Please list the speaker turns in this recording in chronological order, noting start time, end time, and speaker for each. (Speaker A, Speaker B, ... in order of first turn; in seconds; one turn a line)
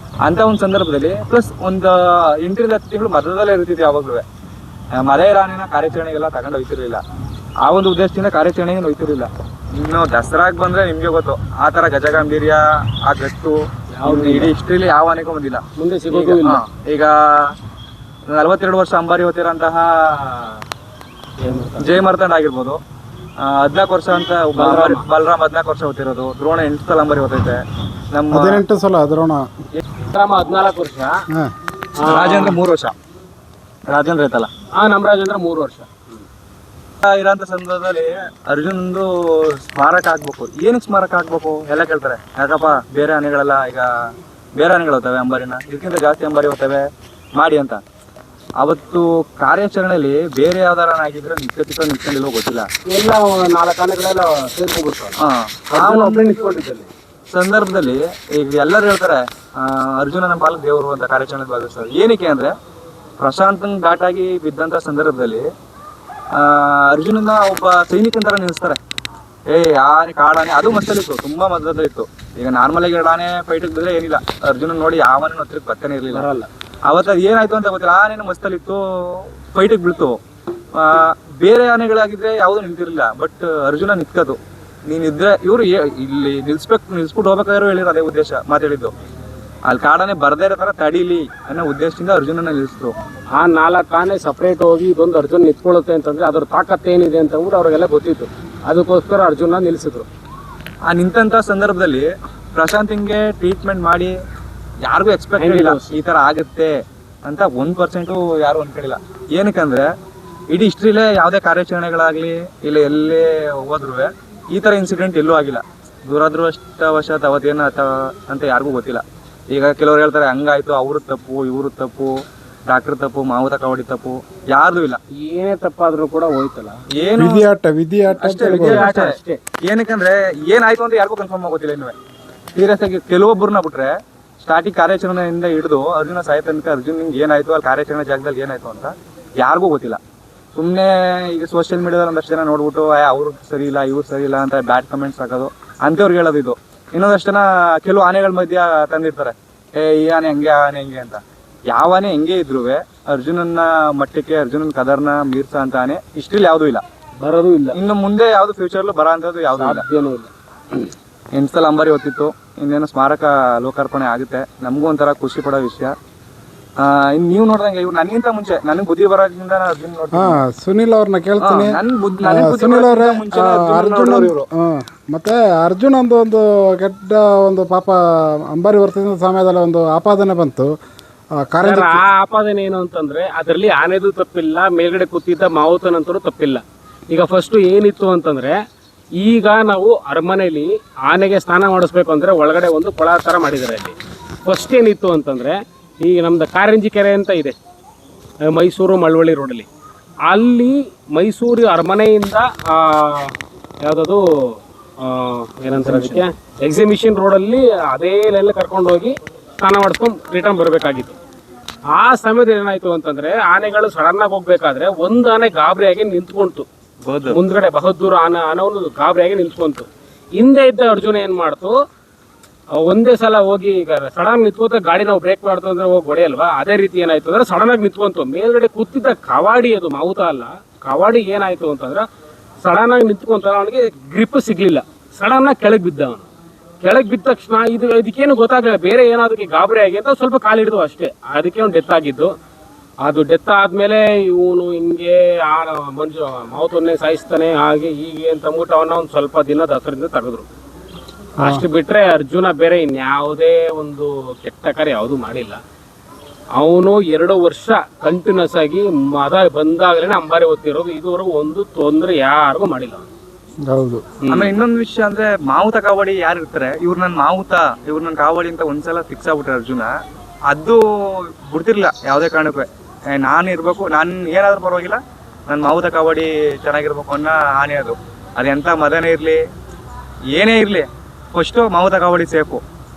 Speaker A: 0.2-4.2
Speaker A: 5.0-7.0
Speaker A: 7.6-17.5
Speaker B: 13.9-14.5
Speaker B: 15.8-16.6
Speaker A: 18.3-20.6
Speaker B: 21.4-21.9
Speaker A: 21.8-22.8
Speaker A: 23.4-27.6
Speaker B: 24.6-25.0
Speaker A: 28.1-28.6
Speaker C: 28.3-29.5
Speaker B: 30.1-31.1
Speaker B: 32.0-32.6
Speaker A: 32.0-32.9
Speaker A: 33.9-34.5
Speaker B: 34.7-36.2
Speaker A: 37.0-43.9
Speaker A: 44.5-46.8
Speaker A: 47.4-47.8
Speaker A: 48.6-52.7
Speaker B: 52.9-55.2
Speaker A: 55.2-56.3
Speaker B: 55.7-56.9
Speaker A: 57.3-62.5
Speaker A: 63.2-65.4
Speaker A: 66.3-68.8
Speaker A: 69.5-76.3
Speaker B: 76.1-76.5
Speaker A: 76.8-80.2
Speaker A: 80.8-88.9
Speaker A: 89.7-93.0
Speaker B: 93.3-100.1
Speaker A: 100.9-104.1
Speaker A: 104.8-106.7
Speaker B: 105.4-105.9
Speaker A: 107.2-109.9
Speaker A: 110.5-122.1
Speaker A: 122.7-125.0
Speaker B: 125.1-126.8
Speaker A: 126.9-127.5
Speaker C: 127.2-128.9
Speaker A: 128.2-131.9
Speaker B: 128.2-129.4
Speaker A: 132.5-140.0
Speaker A: 140.5-156.8
Speaker B: 157.2-157.8
Speaker A: 157.7-159.8
Speaker B: 159.6-160.9
Speaker A: 161.3-165.9
Speaker A: 166.8-170.4
Speaker C: 170.1-178.0
Speaker A: 171.4-174.4
Speaker C: 178.5-180.7
Speaker C: 181.4-182.1
Speaker B: 181.6-188.6
Speaker B: 189.2-197.6
Speaker B: 198.4-199.7
Speaker B: 200.3-211.2
Speaker B: 211.9-216.7
Speaker A: 217.0-217.4
Speaker B: 217.3-221.8
Speaker B: 222.7-232.0
Speaker B: 232.6-236.3
Speaker B: 236.8-242.3
Speaker B: 243.0-250.5
Speaker C: 251.4-251.7
Speaker B: 251.4-255.6
Speaker B: 256.6-263.1
Speaker C: 263.7-264.0
Speaker B: 264.2-264.5
Speaker A: 264.3-269.9
Speaker A: 270.5-279.4
Speaker A: 280.3-282.6